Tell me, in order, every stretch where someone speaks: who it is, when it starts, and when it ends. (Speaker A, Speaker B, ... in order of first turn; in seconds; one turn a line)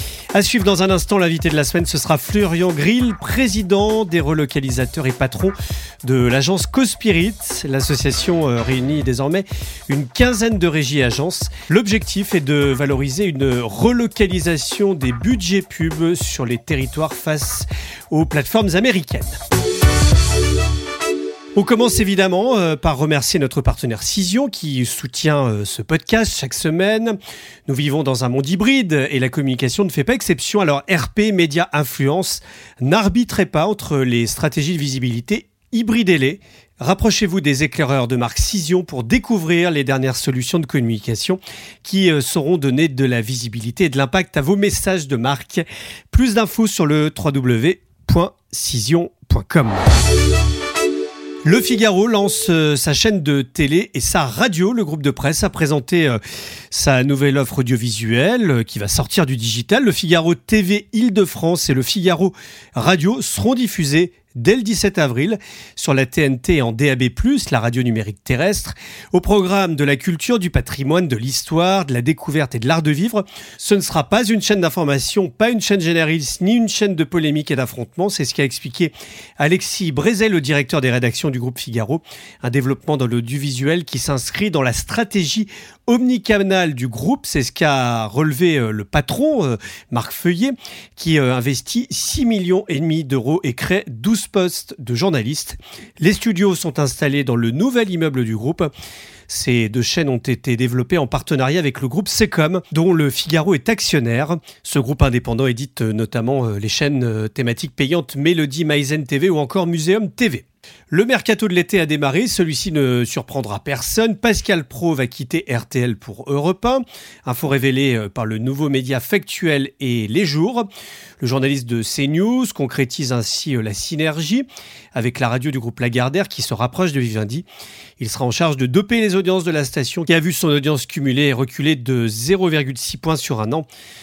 Speaker A: 0.3-19.4
Speaker A: 21.6-27.1
Speaker A: 27.7-49.9
Speaker A: 51.5-56.2
Speaker A: 56.7-98.7
Speaker A: 99.3-120.7
Speaker A: 121.2-127.5
Speaker A: 128.0-133.7